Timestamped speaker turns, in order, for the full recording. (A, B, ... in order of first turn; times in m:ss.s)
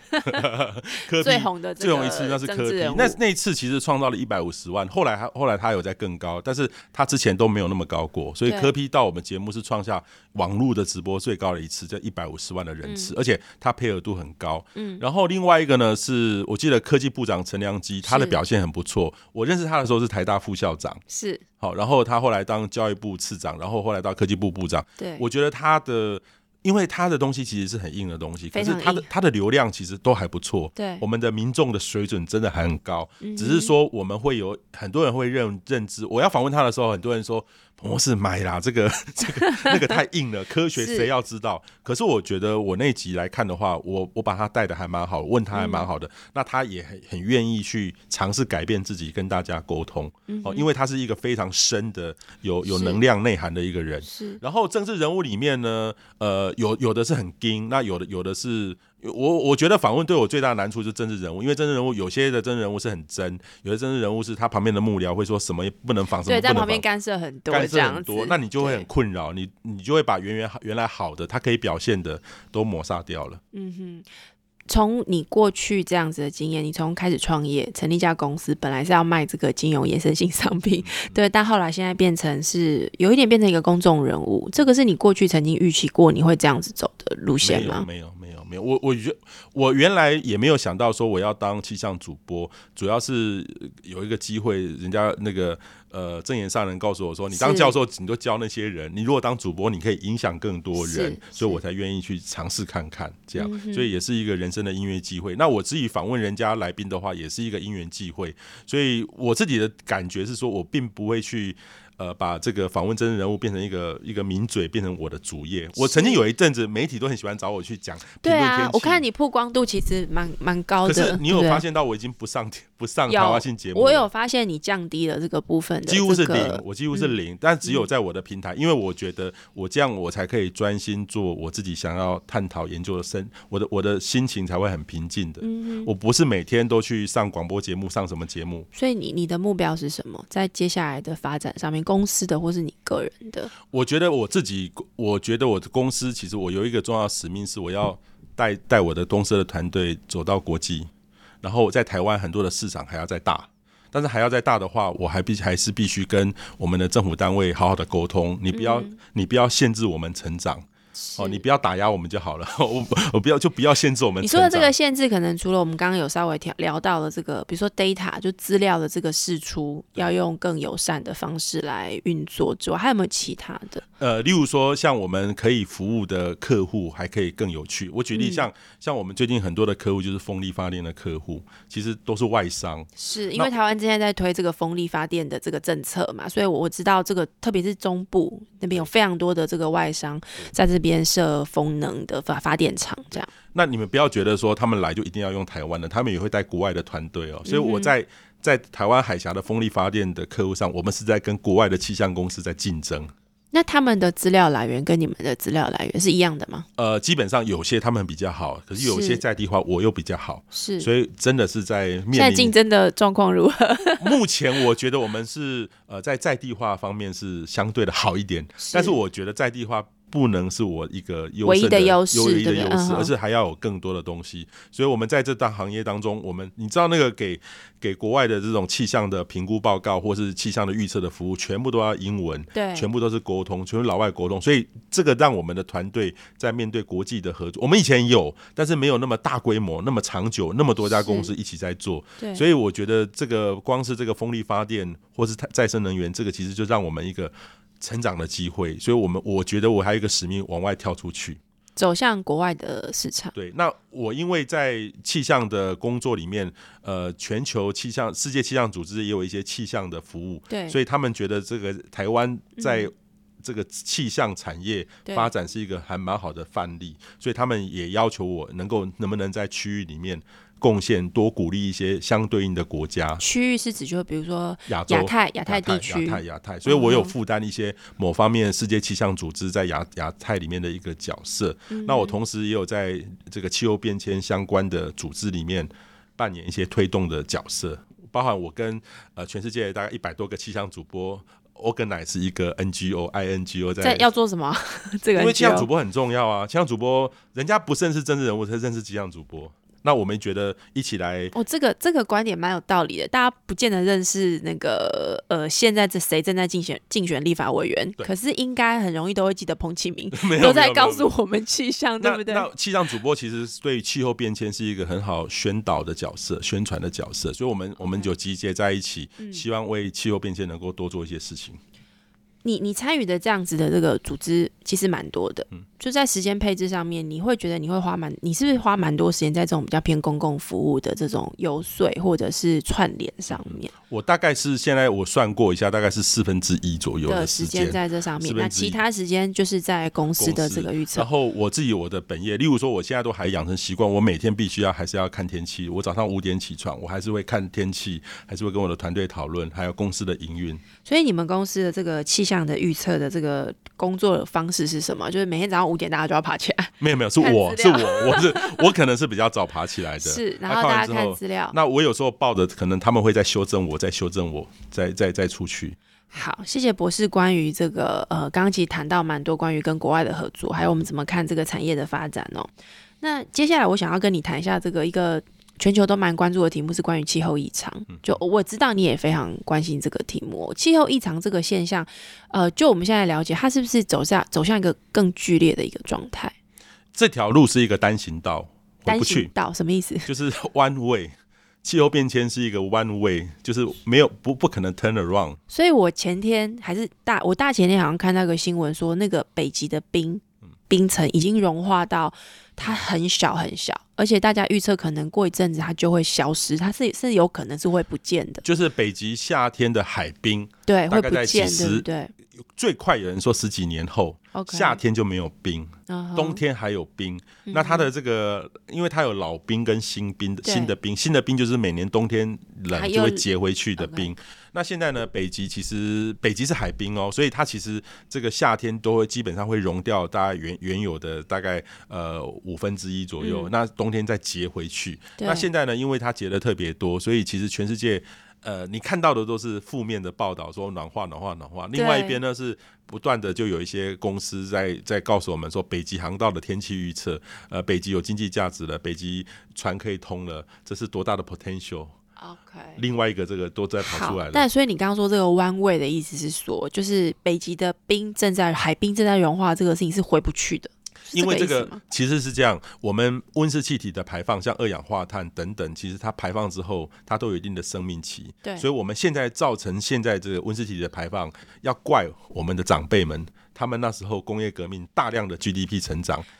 0:00.2-0:21.0 A
0:01.2-0:03.2 B
0:08.4-0:08.7 B
0:12.8-0:13.1 B
0:14.8-0:15.0 B
0:18.0-0:18.4 B
0:21.1-0:21.4 B
0:21.6-1:06.8 A
0:25.0-0:25.2 B
0:28.5-0:29.1 B
0:30.8-0:31.0 B
0:33.2-0:33.7 B
0:40.8-0:41.1 B
0:45.5-0:45.9 B
0:50.3-0:50.7 B
0:52.6-0:53.0 B
0:54.0-0:54.4 B
1:06.2-1:08.8 B
1:07.5-1:13.4 A
1:13.5-1:14.0 B
1:14.7-1:27.8 B
1:27.4-1:59.0 A
1:37.3-1:37.7 B
1:40.8-1:41.6 B
1:43.4-1:43.9 B
1:55.8-1:56.2 B
1:58.2-2:01.6 B
2:00.8-2:04.1 A
2:03.1-2:07.8 B
2:05.9-2:18.7 A
2:15.4-2:15.9 B
2:18.7-2:23.5 B
2:23.6-2:30.9 A
2:31.4-2:40.6 A
2:38.5-2:39.0 B
2:41.0-2:41.4 B
2:41.2-2:44.7 A
2:44.2-2:53.8 B
2:54.0-3:03.5 A
2:58.1-2:58.5 B
3:03.0-3:13.3 B
3:13.5-3:23.1 A
3:17.4-3:17.9 B
3:23.5-3:26.6 B
3:26.8-3:32.5 A
3:28.8-3:29.2 B
3:30.5-3:30.9 B
3:32.1-3:34.2 B
3:34.0-4:11.4 A
3:38.6-3:39.0 B
3:41.4-3:43.1 B
3:52.5-3:52.9 B
4:00.9-4:01.3 B
4:02.2-4:02.4 B
4:11.8-4:13.3 B
4:13.3-4:33.2 A
4:20.5-4:20.8 B
4:22.6-4:22.9 B
4:33.2-4:37.1 B
4:34.7-4:54.1 A
4:41.7-4:42.2 B
4:53.8-4:55.7 B
4:55.2-5:01.3 A
5:01.3-5:12.5 B
5:10.1-5:11.1 A
5:12.0-5:21.6 A
5:22.4-5:33.7 B
5:33.3-5:38.8 A
5:37.1-5:41.0 B
5:40.2-5:50.6 A
5:50.8-5:58.7 B
5:56.8-6:05.8 A
6:00.0-6:01.6 B
6:06.1-6:26.3 B
6:17.9-6:18.2 A
6:26.9-6:29.3 A
6:28.8-6:30.1 B
6:30.0-6:35.4 A
6:35.5-6:48.4 B
6:48.4-6:51.8 A
6:50.7-6:52.1 B
6:52.4-7:31.9 A
6:54.3-6:54.8 B
6:55.9-6:56.4 B
6:57.4-6:57.9 B
7:00.4-7:00.7 B
7:02.7-7:03.2 B
7:03.8-7:04.1 B
7:13.2-7:13.5 B
7:15.2-7:15.4 B
7:21.7-7:22.2 B
7:32.2-7:32.8 B
7:32.8-7:34.4 A
7:33.8-7:41.8 B
7:41.1-7:56.2 A